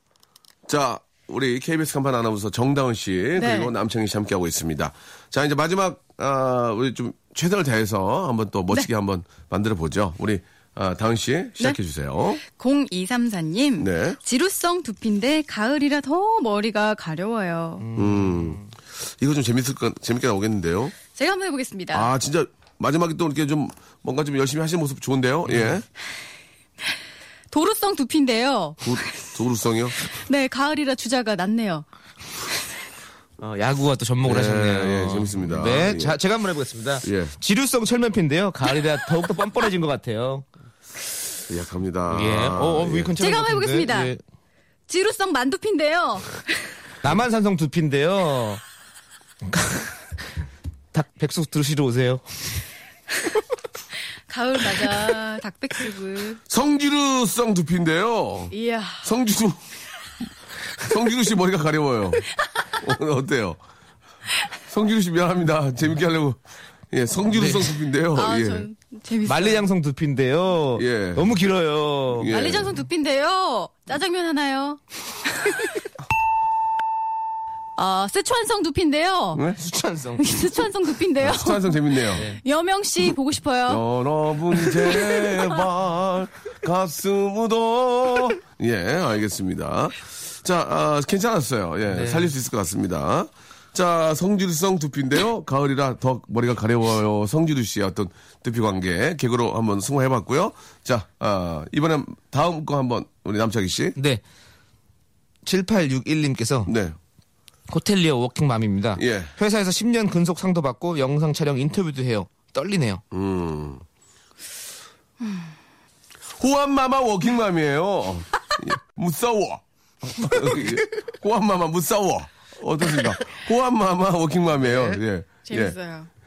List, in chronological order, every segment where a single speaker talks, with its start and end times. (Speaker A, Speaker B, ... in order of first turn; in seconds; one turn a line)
Speaker A: 0.7-12.4
Speaker B: 3.4-3.7
Speaker B: 12.4-17.8
Speaker A: 13.8-14.2
Speaker C: 17.8-18.7
Speaker A: 17.9-20.9
Speaker B: 21.1-22.1
Speaker A: 21.9-25.8
Speaker C: 25.5-25.8
Speaker B: 27.5-29.3
Speaker A: 28.8-30.0
Speaker B: 30.0-31.8
Speaker C: 33.4-40.5
Speaker A: 34.2-36.2
Speaker A: 37.0-37.3
Speaker A: 41.5-43.1
Speaker C: 42.1-44.2
Speaker B: 43.2-44.1
Speaker B: 44.9-46.4
Speaker C: 47.0-48.6
Speaker C: 49.5-49.9
Speaker C: 50.9-52.2
Speaker B: 54.3-56.4
Speaker A: 56.5-59.6
Speaker B: 58.5-59.1
Speaker A: 60.8-63.6
Speaker A: 64.7-68.7
Speaker C: 67.3-67.7
Speaker B: 68.1-69.6
Speaker C: 69.2-72.3
Speaker A: 70.8-71.4
Speaker A: 72.1-72.8
Speaker B: 72.3-75.8
Speaker B: 77.8-79.4
Speaker C: 79.5-80.5
Speaker B: 80.2-83.8
Speaker A: 81.2-82.2
Speaker C: 82.1-82.4
Speaker A: 83.7-104.0
Speaker B: 85.1-85.6
Speaker C: 91.9-92.3
Speaker C: 104.0-104.2
Speaker C: 105.4-106.7
Speaker A: 106.7-107.0
Speaker C: 107.7-113.0
Speaker A: 109.0-109.3
Speaker A: 113.1-113.8
Speaker A: 116.4-125.8
Speaker C: 120.3-120.7
Speaker C: 124.6-124.9
Speaker B: 125.4-126.1